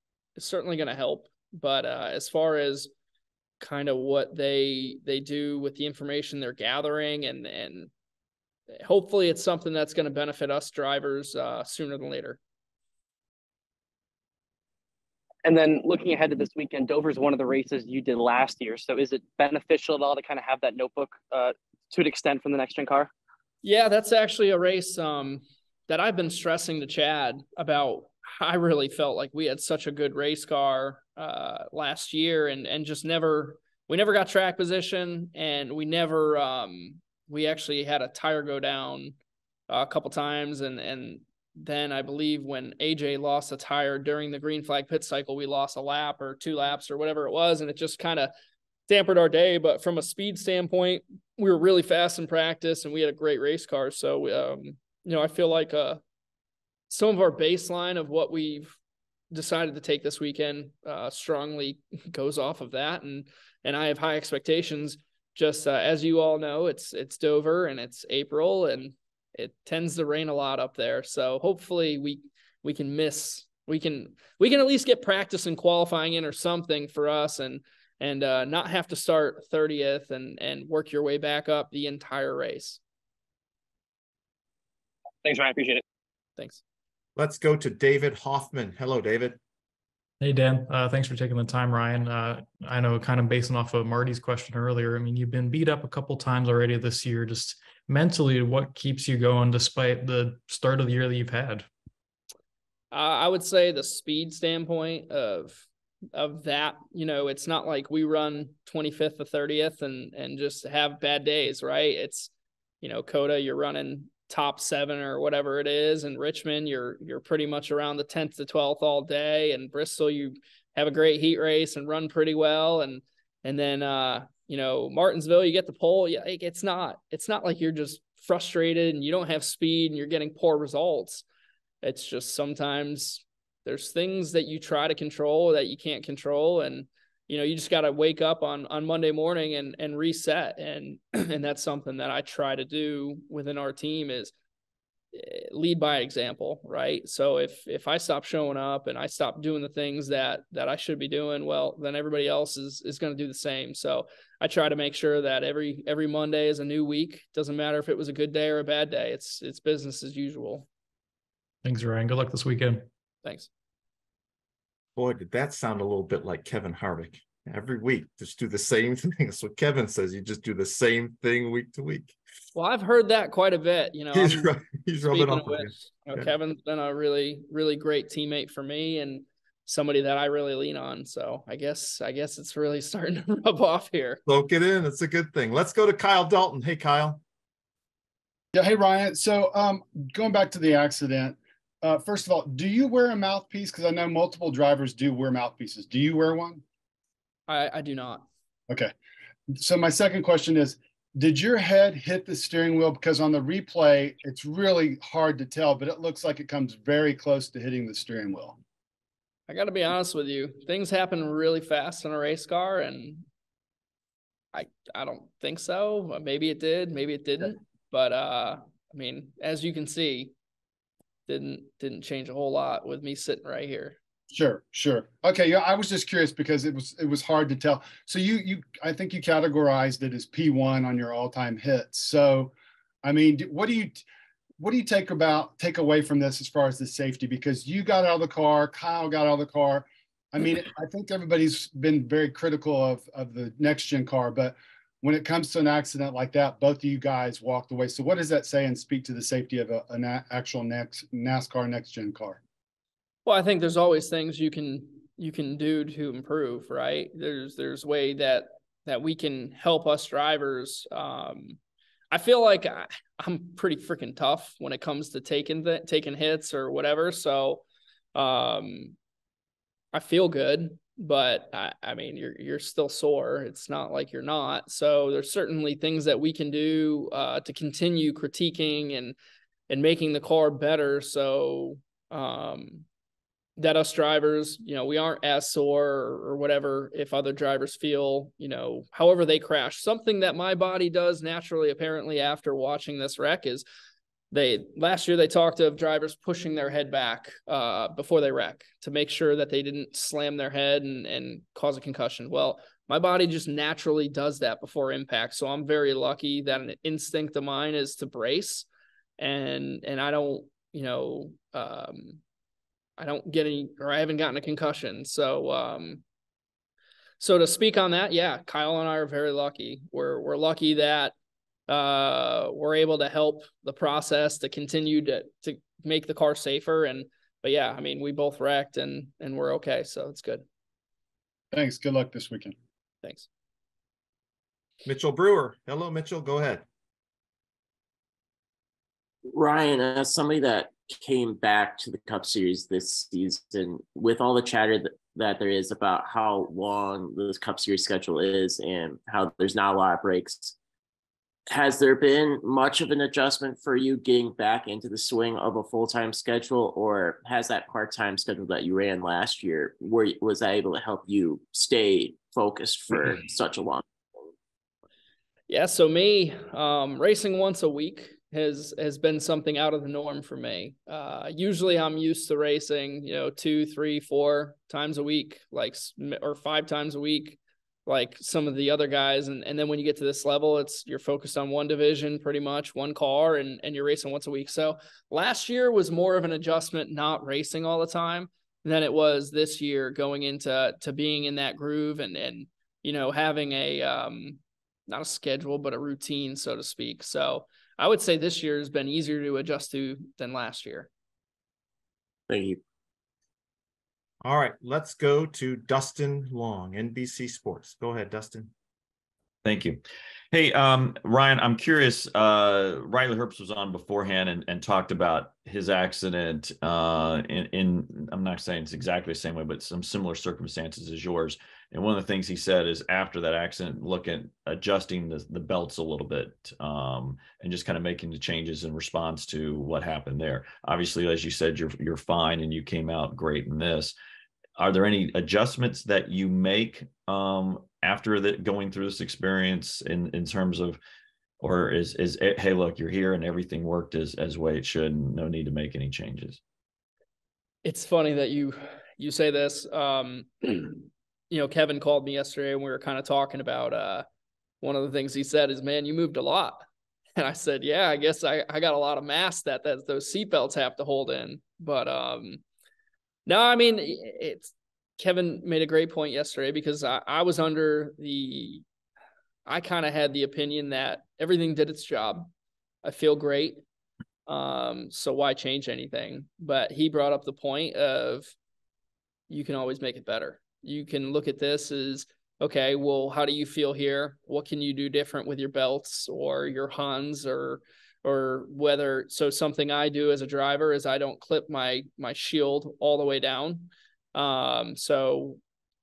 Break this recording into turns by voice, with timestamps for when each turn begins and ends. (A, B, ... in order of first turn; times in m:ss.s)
0:00.4-0:02.9 A
0:03.6-0:07.9 A
0:08.8-0:12.4 A
0:15.4-0:23.1 B
0:23.6-0:39.1 A
0:39.7-0:48.3 A
0:48.9-0:56.0 A
0:56.9-0:58.8 A
0:59.3-1:22.8 A
1:25.2-1:25.8 B
1:26.4-1:26.6 A
1:27.2-1:29.4 C
1:30.2-1:41.7 D
1:42.9-1:52.3 A
1:52.8-2:11.2 A
2:11.8-2:24.3 A
2:25.1-2:40.7 A
2:41.6-2:42.8 D
2:43.2-2:43.5 A
2:45.0-2:52.2 C
2:52.5-2:54.5 A
2:54.1-2:56.3 C
2:55.1-3:04.2 A
3:04.2-3:07.2 C
3:08.5-3:16.6 E
3:17.5-3:18.2 A
3:19.6-3:28.6 E
3:29.5-3:33.2 A
3:34.5-3:40.3 A
3:41.3-3:44.0 A
3:44.3-3:52.5 E
3:53.0-3:54.0 E
3:54.6-4:12.4 E
4:13.2-4:21.6 A
4:22.1-4:27.6 A
4:28.1-4:28.9 A
4:29.9-4:39.2 A
4:39.7-4:42.8 A
4:43.6-4:53.6 A
4:54.3-5:08.7 A
5:09.2-5:12.2 A
5:13.0-5:16.0 A
5:17.2-5:21.1 A
5:21.7-5:30.4 A
5:31.5-5:32.5 E
5:33.0-5:33.3 A
5:34.8-5:36.6 C
5:39.3-5:50.5 F
5:51.5-6:03.8 F
6:05.5-6:40.9 A
6:42.3-6:42.6 F
6:44.2-6:48.5 C
6:49.4-6:49.8 G
6:50.3-7:13.9 G
7:14.6-7:20.8 G
7:21.4-7:26.4 G
7:27.6-7:34.0 A
7:34.6-7:36.6 A
7:37.2-7:42.4 A
7:43.2-7:48.6 A
7:49.4-7:52.3 A
7:52.8-7:53.6 A
7:54.3-7:58.3 A
7:59.3-8:15.4 A